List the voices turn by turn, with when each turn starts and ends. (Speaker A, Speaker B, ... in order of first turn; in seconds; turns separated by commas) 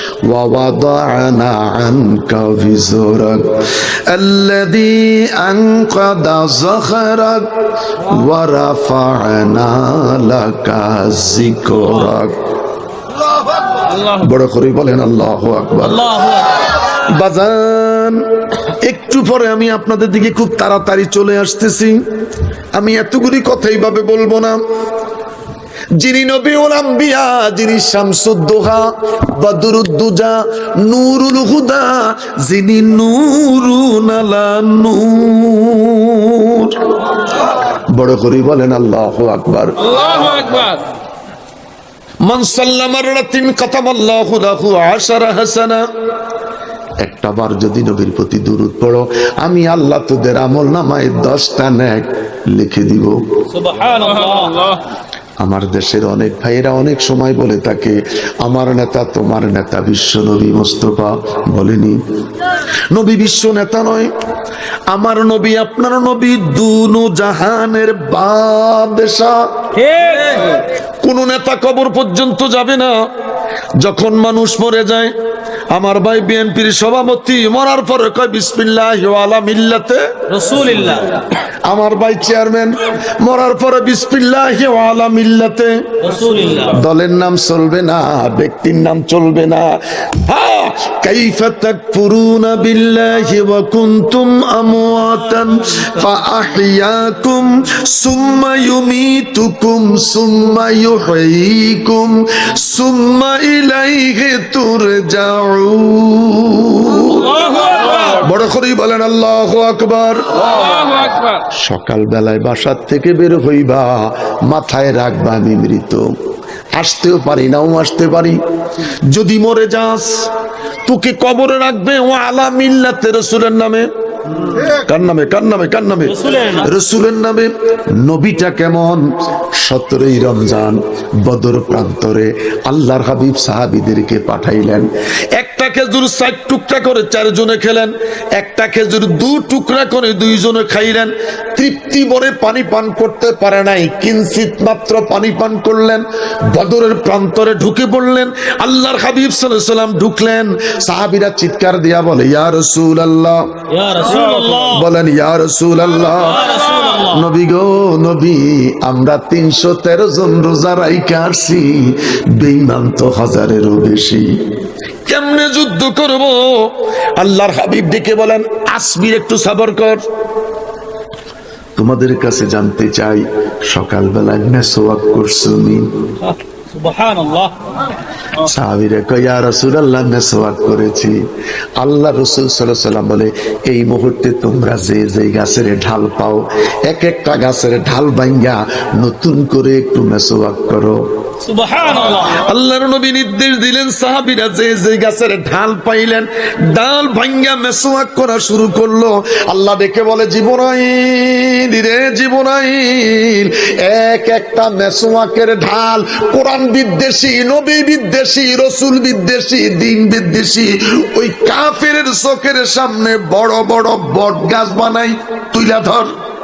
Speaker A: 0.2-12.3, Speaker A: 13.9-16.2, Speaker B: 15.8-16.7, Speaker A: 16.8-18.2, Speaker A: 18.8-22.0, Speaker A: 22.7-24.6, Speaker A: 26.0-36.8, Speaker A: 37.6-40.7, Speaker A: 42.2-45.8, Speaker A: 47.0-53.2, Speaker B: 53.5-54.8, Speaker A: 55.4-64.1, Speaker A: 64.9-69.4, Speaker B: 69.7-70.6, Speaker A: 71.0-72.9, Speaker A: 73.8-75.1, Speaker A: 75.7-80.0, Speaker B: 80.3-81.1, Speaker A: 81.6-85.8, Speaker B: 86.0-86.8, Speaker A: 86.5-110.9, Speaker A: 111.6-116.0, Speaker A: 116.8-118.4, Speaker A: 119.1-120.1, Speaker A: 120.8-123.9, Speaker A: 124.5-129.1, Speaker B: 126.1-126.7, Speaker A: 129.6-153.4, Speaker B: 153.7-154.9, Speaker A: 154.7-164.2, Speaker B: 156.3-157.2, Speaker A: 165.1-170.0, Speaker A: 171.8-175.9, Speaker B: 176.2-177.8, Speaker A: 178.4-181.2, Speaker A: 181.8-191.0, Speaker B: 191.4-192.4, Speaker A: 192.1-216.1